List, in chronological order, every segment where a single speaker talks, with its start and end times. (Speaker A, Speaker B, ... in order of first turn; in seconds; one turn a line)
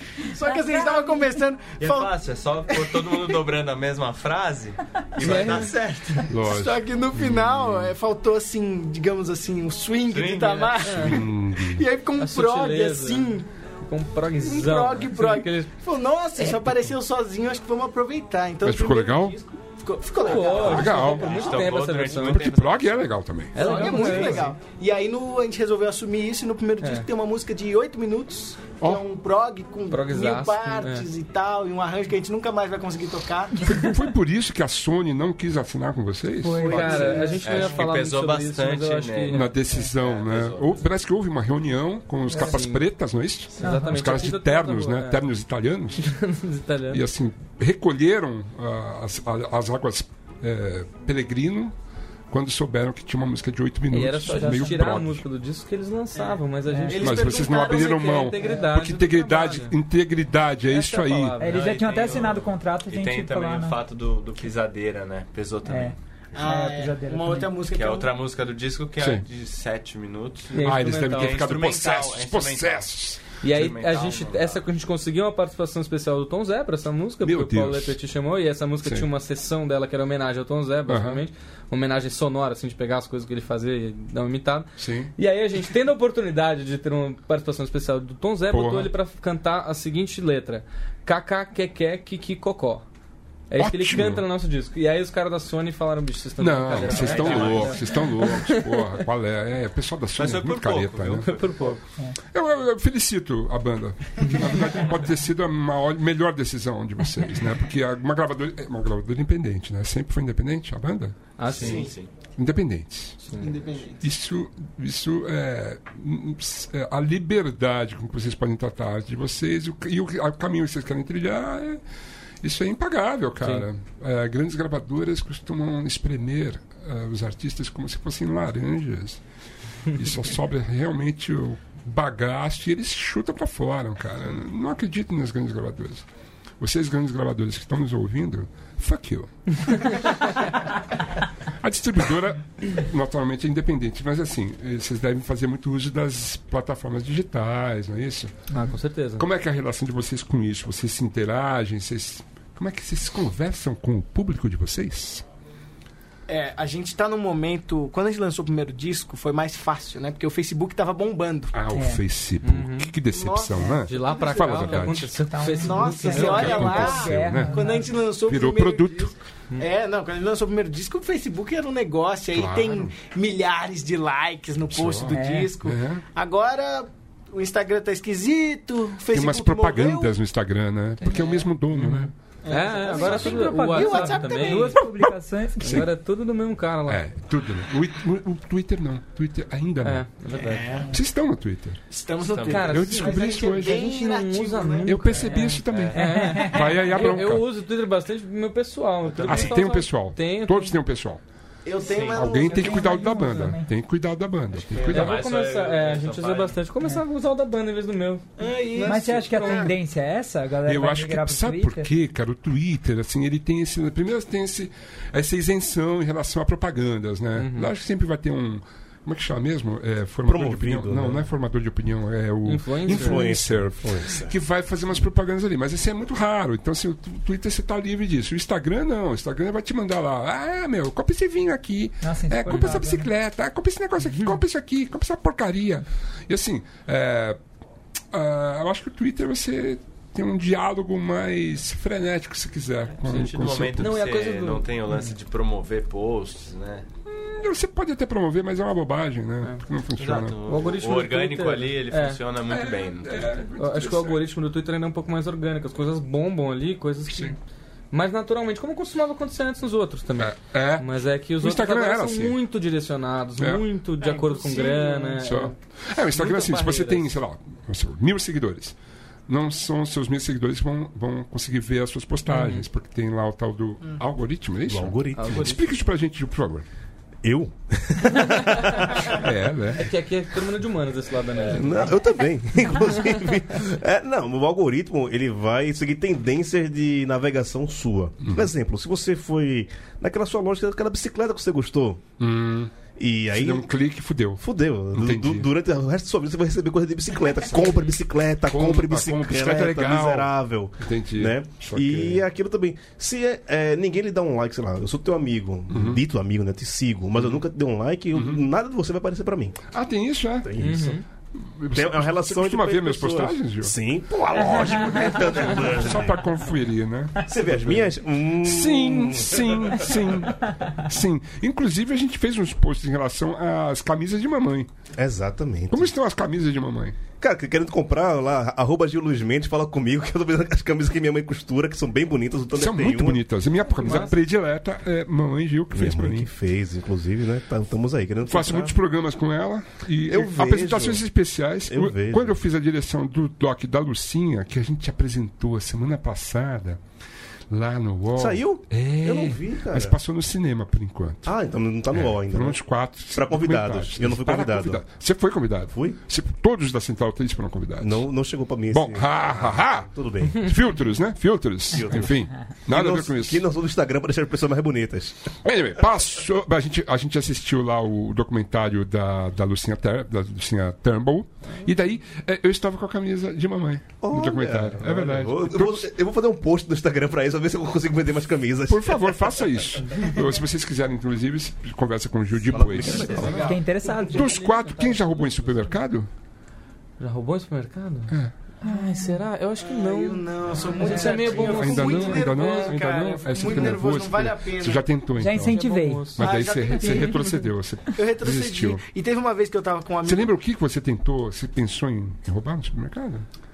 Speaker A: 0.2-2.1
Speaker B: 1.8-6.3
Speaker A: 2.7-3.2
Speaker C: 5.2-5.7
Speaker A: 5.2-13.5
Speaker D: 6.3-7.9
Speaker B: 10.1-11.0
Speaker C: 10.8-11.2
Speaker D: 11.0-11.8
Speaker C: 12.2-15.7
Speaker A: 14.4-21.7
Speaker C: 16.4-16.7
Speaker D: 18.6-19.4
Speaker C: 20.2-22.5
Speaker D: 20.5-21.4
Speaker B: 20.6-23.1
Speaker D: 22.1-24.3
Speaker C: 23.5-24.5
Speaker A: 23.5-33.9
Speaker C: 26.8-27.1
Speaker C: 29.9-31.1
Speaker D: 33.6-37.3
Speaker E: 36.4-37.5
Speaker C: 36.6-39.5
Speaker B: 37.4-40.9
Speaker D: 39.3-46.0
Speaker E: 42.3-42.6
Speaker C: 42.3-42.8
Speaker E: 43.5-44.2
Speaker C: 43.6-45.2
Speaker C: 46.0-47.0
Speaker D: 46.9-51.7
Speaker D: 52.3-55.2
Speaker C: 53.9-59.8
Speaker E: 54.3-55.0
Speaker A: 56.1-58.5
Speaker E: 56.7-57.0
Speaker D: 57.0-61.4
Speaker C: 60.7-61.8
Speaker E: 61.4-63.8
Speaker B: 61.4-66.0
Speaker E: 65.7-67.7
Speaker A: 66.3-68.1
Speaker B: 67.7-74.6
Speaker D: 69.0-69.2
Speaker C: 70.5-71.5
Speaker D: 70.5-73.2
Speaker C: 73.4-92.8
Speaker D: 77.2-78.0
Speaker D: 80.9-81.2
Speaker D: 84.8-85.1
Speaker D: 88.5-88.9
Speaker C: 93.5-98.9
Speaker D: 93.5-94.3
Speaker D: 96.4-101.3
Speaker B: 96.8-98.1
Speaker B: 100.2-101.8
Speaker C: 101.3-101.8
Speaker D: 102.2-111.8
Speaker C: 111.4-111.9
Speaker B: 111.5-112.1
Speaker A: 111.6-111.9
Speaker D: 112.3-113.3
Speaker C: 113.3-113.5
Speaker A: 113.4-114.0
Speaker D: 114.0-121.8
Speaker D: 122.4-129.2
Speaker D: 129.8-136.1
Speaker D: 136.6-140.4
Speaker C: 139.8-140.0
Speaker D: 141.6-148.3
Speaker C: 148.5-149.3
Speaker D: 149.2-155.2
Speaker A: 156.3-161.6
Speaker D: 161.5-165.2
Speaker E: 161.7-162.0
Speaker C: 162.4-162.9
Speaker A: 163.1-164.9
Speaker C: 163.8-166.7
Speaker E: 165.2-168.0
Speaker A: 165.6-180.2
Speaker D: 166.1-169.1
Speaker D: 172.3-172.9
Speaker D: 174.7-176.0
Speaker E: 175.1-175.6
Speaker D: 179.1-182.1
Speaker C: 181.7-184.8
Speaker A: 182.4-184.8
Speaker E: 182.9-185.9
Speaker D: 184.9-185.9
Speaker C: 185.6-187.0
Speaker D: 186.9-190.1
Speaker C: 189.8-190.7
Speaker A: 190.3-191.0
Speaker D: 190.9-191.8
Speaker A: 191.9-195.4
Speaker B: 192.2-192.7
Speaker C: 192.4-200.8
Speaker D: 192.6-193.9
Speaker D: 194.8-197.4
Speaker E: 195.4-196.8
Speaker B: 195.6-196.0
Speaker B: 199.1-199.5
Speaker D: 199.2-201.2
Speaker A: 201.6-203.1
Speaker B: 201.8-202.3
Speaker D: 202.1-205.2
Speaker E: 202.4-203.7
Speaker B: 204.7-206.6
Speaker C: 204.9-209.7
Speaker A: 208.4-209.4
Speaker E: 208.8-211.9
Speaker D: 209.4-209.7
Speaker D: 210.6-237.4
Speaker C: 217.3-217.7
Speaker F: 220.3-221.2
Speaker C: 222.4-223.3
Speaker F: 222.9-224.3
Speaker E: 232.0-233.1
Speaker D: 238.1-244.0
Speaker B: 243.0-246.9
Speaker C: 243.8-244.7
Speaker D: 247.1-250.4
Speaker B: 250.0-253.3
Speaker C: 250.4-252.2
Speaker D: 252.4-254.2
Speaker C: 253.5-257.4
Speaker D: 257.1-257.3
Speaker C: 257.9-265.5
Speaker D: 260.2-262.4
Speaker D: 263.4-263.6
Speaker A: 264.0-265.2
Speaker D: 265.2-268.8
Speaker C: 266.1-267.1
Speaker D: 269.3-276.6
Speaker C: 272.3-272.6
Speaker F: 274.7-275.4
Speaker C: 275.1-275.6
Speaker F: 277.2-279.2
Speaker C: 278.5-278.9
Speaker D: 279.1-279.9
Speaker C: 279.7-282.1
Speaker F: 281.4-292.0
Speaker C: 282.9-283.1
Speaker D: 288.2-288.5
Speaker D: 292.2-292.7
Speaker F: 292.9-293.7
Speaker D: 293.3-295.5
Speaker F: 294.4-309.6
Speaker D: 298.4-302.2
Speaker D: 305.7-306.0
Speaker D: 309.7-313.7
Speaker F: 310.4-311.0
Speaker C: 310.6-311.0
Speaker F: 311.7-316.2
Speaker D: 315.4-324.7
Speaker F: 317.2-320.1
Speaker F: 325.0-325.9
Speaker D: 325.7-327.0
Speaker F: 327.2-333.2
Speaker D: 332.5-336.3
Speaker C: 333.8-334.1
Speaker F: 335.7-338.8
Speaker D: 338.2-346.8
Speaker F: 340.1-341.0
Speaker F: 341.6-342.4
Speaker D: 347.5-351.3
Speaker F: 348.1-349.9
Speaker F: 351.2-354.8
Speaker D: 351.9-358.0
Speaker F: 355.7-356.0
Speaker F: 357.8-360.5
Speaker D: 358.7-363.4
Speaker F: 361.7-365.3
Speaker D: 365.4-375.9
Speaker F: 374.0-379.3
Speaker D: 378.7-386.1
Speaker F: 382.5-383.6
Speaker A: 383.2-383.6
Speaker E: 383.3-384.4
Speaker C: 383.9-385.8
Speaker C: 387.0-390.2
Speaker E: 388.6-389.2
Speaker A: 389.6-394.9
Speaker C: 390.8-392.7
Speaker E: 390.8-391.4
Speaker D: 391.2-395.6
Speaker E: 395.1-397.4
Speaker C: 395.3-396.2
Speaker D: 396.1-398.8
Speaker A: 396.2-397.4
Speaker A: 397.9-400.3
Speaker D: 400.0-403.2